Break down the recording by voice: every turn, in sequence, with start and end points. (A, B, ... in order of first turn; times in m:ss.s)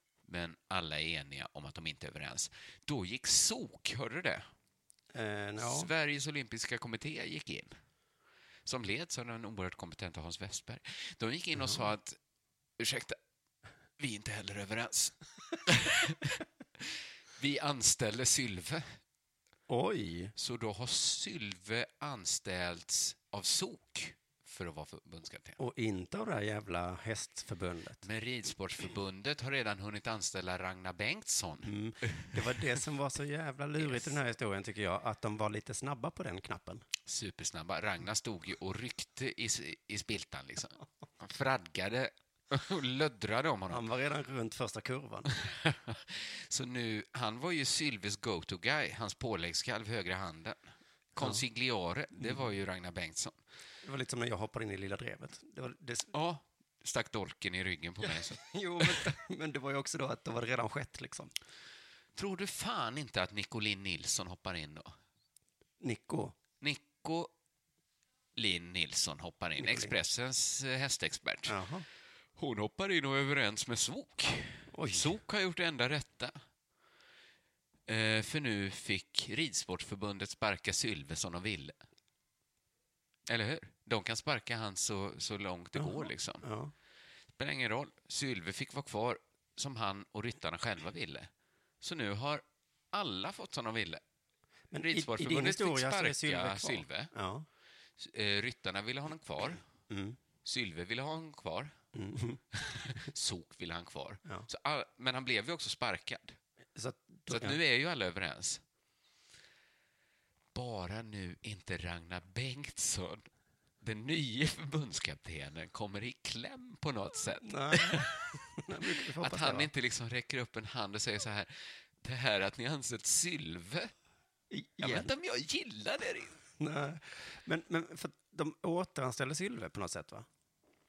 0:00.2-0:04.5 A
0:05.1-0:05.9 B
0:05.6-0:07.8 A
0:08.6-0:12.2 A
0:12.8-0:13.2 A
0:14.0-0:19.0 A
0:19.7-0:20.3 B
0:20.4-0:25.6 A
0:25.6-0:28.0 B
0:28.0-0:32.6 A
0:31.6-0:36.8 B
0:33.8-0:34.1 A
0:37.0-0:43.8 A
0:43.7-0:45.3 B
0:45.3-0:53.4 A
0:52.2-0:52.4 B
0:53.8-0:56.1 B
0:56.1-0:58.4 A
0:58.1-1:01.3 B
1:02.2-1:04.9 A
1:05.8-1:06.4 B
1:06.6-1:07.3 A
1:08.4-1:11.6 A
1:09.6-1:09.9 B
1:11.5-1:11.8 B
1:12.4-1:16.4 A
1:14.7-1:15.1 B
1:17.9-1:21.8 A
1:23.3-1:26.4 A
1:25.8-1:26.7 B
1:27.4-1:31.3 A
1:31.8-1:34.0 A
1:34.7-1:37.4 B
1:34.8-1:37.1 A
1:38.0-1:39.6 A
1:39.9-1:40.2 B
1:40.4-1:41.7 A
1:41.9-1:42.4 B
1:42.5-1:46.4 A
1:46.7-1:47.6 B
1:47.3-1:48.6 A
1:50.5-1:53.3 A
1:53.8-2:03.9 A
1:57.4-1:59.7 B
2:04.5-2:05.1 B
2:04.8-2:06.4 A
2:06.6-2:10.2 B